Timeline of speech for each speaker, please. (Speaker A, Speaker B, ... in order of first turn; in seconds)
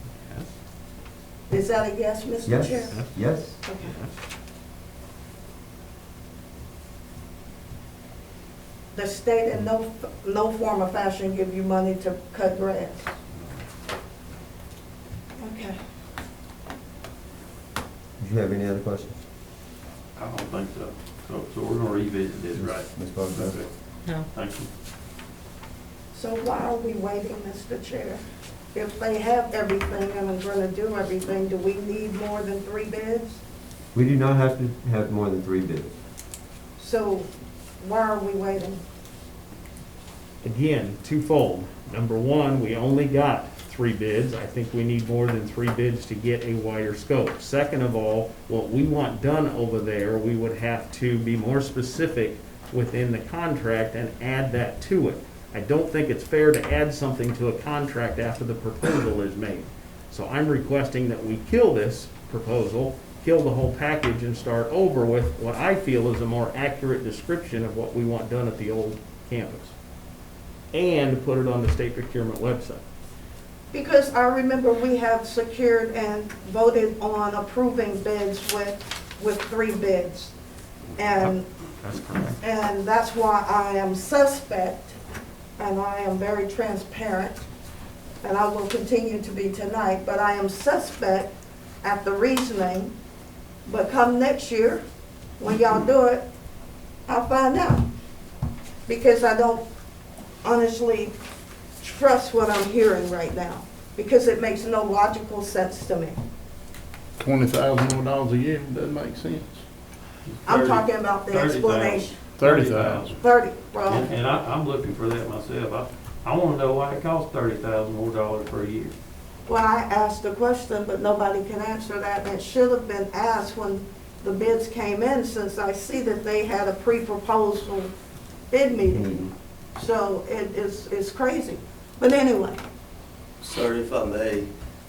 Speaker A: 0.2-0.5, 3.8-4.1, 40.4-69.7, 70.7-72.8, 81.0-82.4
Speaker B: 1.5-3.0, 3.6-3.9, 8.9-13.1, 15.4-15.8, 26.1-28.2, 28.7-33.4, 36.8-38.8, 73.7-80.3, 81.0-81.5, 82.4-85.0, 85.6-87.5, 88.2-91.3, 91.8-92.9, 93.7-94.8, 95.4-96.2, 97.0-97.8, 98.8-99.6, 100.4-101.1, 101.8-106.2, 110.4-112.2, 113.2-114.1, 119.5-127.9, 128.5-132.6
Speaker C: 2.4-3.6, 18.2-19.2, 22.5-23.6, 33.9-35.9, 128.9-129.3
Speaker D: 20.1-24.7, 110.2-113.1, 113.9-118.9, 133.4-134.5
Speaker E: 107.2-109.6, 112.4-113.1